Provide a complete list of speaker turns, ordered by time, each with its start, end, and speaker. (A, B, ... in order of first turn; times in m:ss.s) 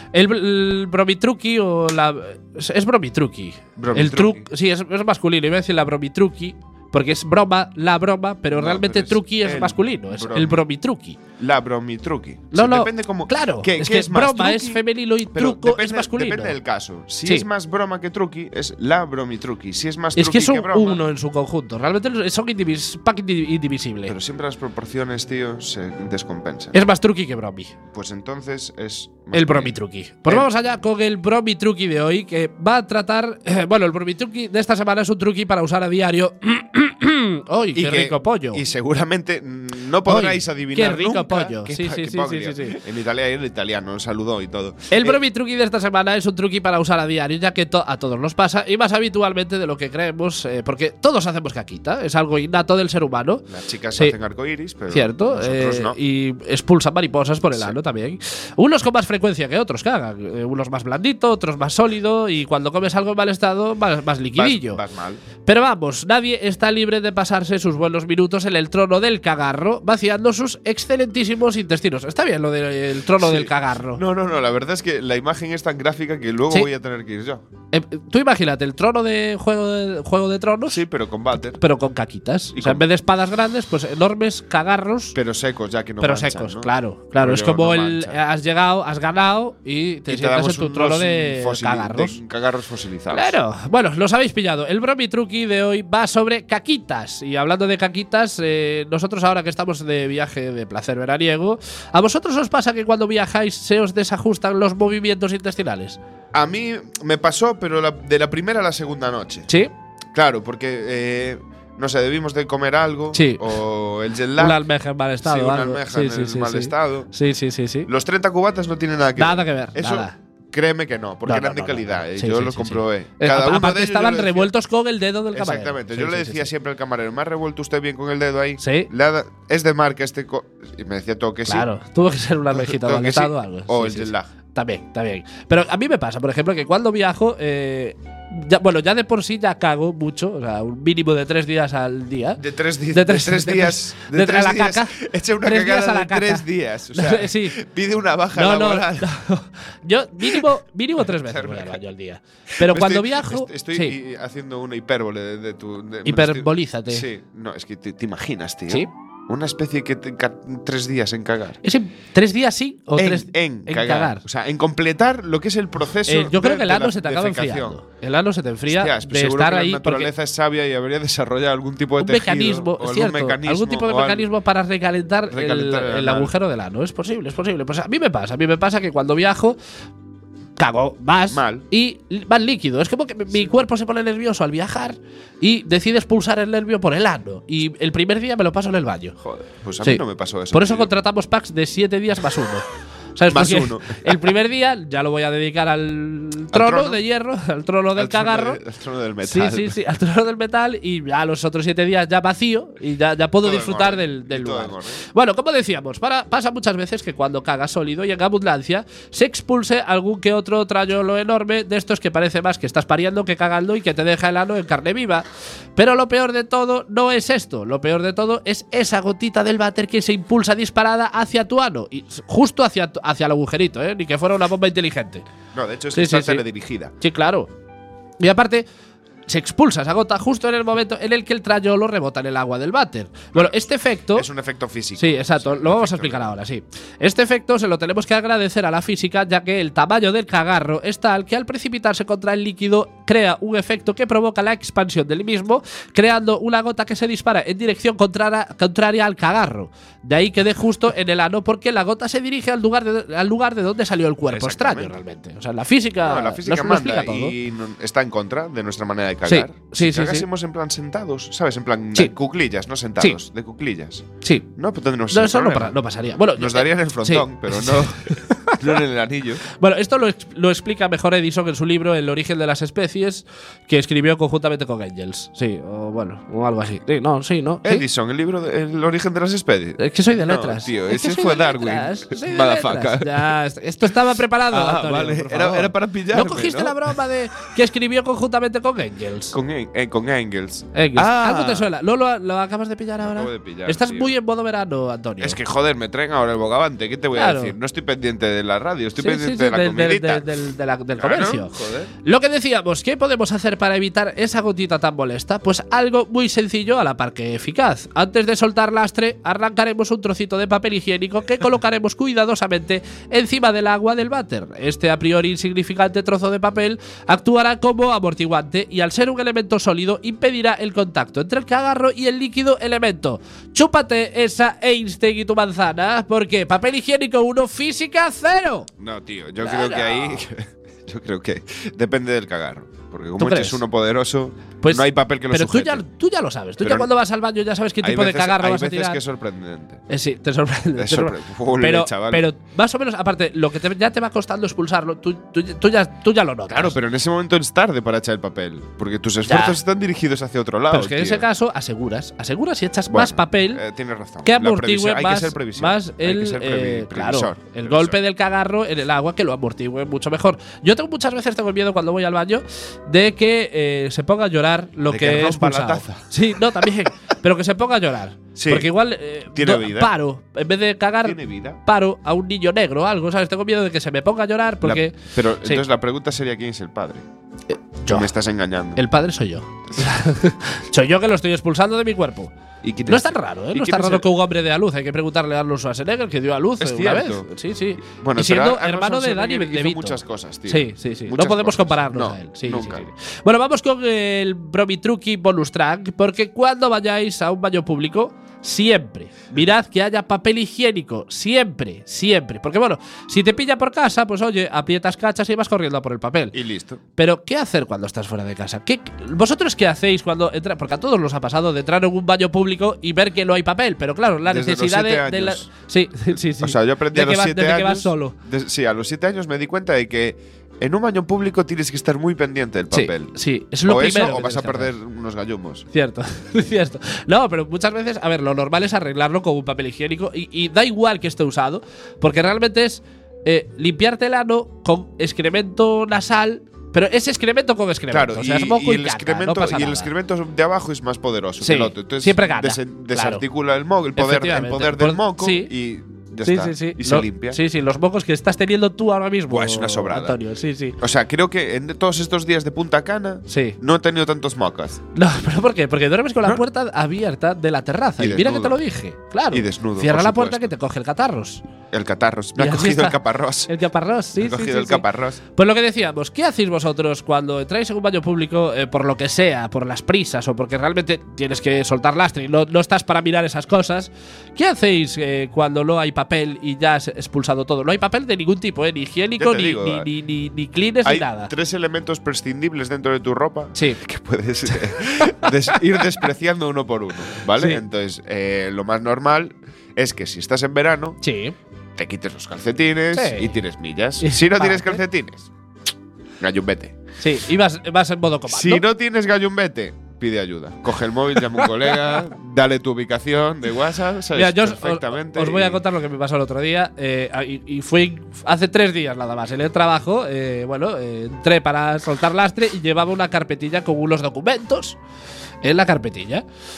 0:00.1-0:11.2 A
0:03.8-0:04.5 B
0:08.5-0:10.6 B
0:11.4-0:21.0 B
0:12.5-0:16.6 A
0:20.2-0:24.1 A
0:24.1-0:26.9 B
0:26.7-0:27.7 A
0:27.9-0:30.5 B
0:29.3-0:38.6 A
0:37.8-0:45.2 B
0:40.0-0:42.8 A
0:44.9-0:54.2 A
0:53.5-0:56.0 B
0:54.9-1:04.8 A
1:04.4-1:05.2 B
1:05.4-1:14.0 A
1:13.2-1:17.4 B
1:17.7-1:20.8 A
1:20.7-1:21.6 B
1:21.6-1:25.2 A
1:22.6-1:22.8 B
1:25.2-1:28.2 B
1:26.0-1:32.2 A
1:30.1-1:33.4 B
1:33.1-1:46.0 A
1:46.3-1:49.5 B
1:50.1-1:54.6 B
1:53.1-1:53.4 A
1:54.4-1:57.9 A
1:55.2-1:57.1 B
1:57.9-2:04.5 B
1:59.2-2:00.2 A
2:01.3-2:06.5 A
2:05.3-2:11.7 B
2:08.6-2:08.9 A
2:11.5-2:27.6 A
2:12.5-2:14.3 B
2:22.4-2:29.2 B
2:28.3-2:34.0 A
2:30.2-2:30.5 B
2:31.1-2:31.8 B
2:32.6-2:41.6 B
2:36.0-2:37.1 A
2:41.6-2:44.2 A
2:43.0-2:47.8 B
2:46.1-2:50.1 A
2:48.7-2:54.3 B
2:52.0-2:59.6 A
2:55.3-2:56.3 B
3:00.6-3:09.2 A
3:01.3-3:01.6 B
3:09.2-3:10.9 B
3:09.8-3:18.6 A
3:13.3-3:14.3 B
3:16.5-3:17.0 B
3:18.0-3:19.8 B
3:19.2-3:45.2 A
3:23.4-3:25.0 B
3:45.5-3:46.9 B
3:45.9-3:46.4 A
3:47.0-3:47.5 A
3:48.2-3:48.6 A
3:49.3-3:54.3 A
3:54.1-3:56.3 B
3:55.0-4:17.4 A
4:14.3-4:15.0 B
4:16.0-4:24.0 B
4:19.3-4:20.3 A
4:24.2-4:24.5 A
4:24.6-4:25.8 B
4:25.1-4:28.8 A
4:26.4-4:29.4 B
4:29.5-4:37.8 A
4:37.6-4:43.3 B
4:39.8-4:49.4 A
4:44.5-4:47.0 B
4:49.3-4:51.7 B
4:50.7-4:55.4 A
4:53.0-4:54.1 B
4:55.2-5:00.4 B
4:57.1-4:57.6 A
4:59.0-5:28.7 A
5:01.0-5:01.9 B
5:28.8-5:35.8 B
5:29.4-5:30.2 A
5:33.2-5:33.6 A
5:34.6-5:39.0 A
5:36.6-5:36.9 B
5:37.8-5:39.8 B
5:39.9-5:46.8 A
5:40.8-5:42.3 B
5:46.5-5:51.3 B
5:49.3-5:49.6 A
5:50.7-5:53.6 A
5:52.9-5:58.0 B
5:54.2-6:15.6 A
6:04.9-6:06.9 B
6:08.4-6:08.7 B
6:09.3-6:09.9 B
6:11.0-6:11.6 B
6:14.6-6:17.0 B
6:17.8-6:18.1 A
6:17.9-6:18.8 B
6:18.8-6:22.3 A
6:22.6-6:24.1 B
6:22.9-6:46.4 A
6:26.6-6:27.3 B
6:27.8-6:32.9 B
6:46.3-6:46.8 B
6:47.0-6:58.2 A
6:54.2-6:55.5 B
6:56.1-7:05.7 B
7:02.7-7:04.7 A
7:05.7-7:19.9 A
7:17.9-7:27.4 B
7:21.4-7:23.2 A
7:24.0-7:25.5 A
7:26.2-7:30.8 A
7:29.3-7:30.2 B
7:30.8-7:34.8 B
7:33.3-7:33.6 A
7:35.0-7:41.4 A
7:38.0-7:38.6 B
7:39.3-7:40.5 B
7:41.7-7:43.5 B
7:42.4-8:01.3 A
7:44.2-7:45.2 B
7:59.2-7:59.9 B
8:00.8-8:11.0 B
8:04.5-8:05.6 A
8:07.4-8:07.6 A
8:11.0-8:11.4 A
8:11.8-8:15.3 B
8:12.9-8:13.4 A
8:14.0-8:14.8 A
8:16.2-8:16.8 B
8:17.0-8:18.6 A
8:18.3-8:25.6 B
8:21.2-8:22.0 A
8:24.2-8:34.8 A
8:35.4-8:36.2 A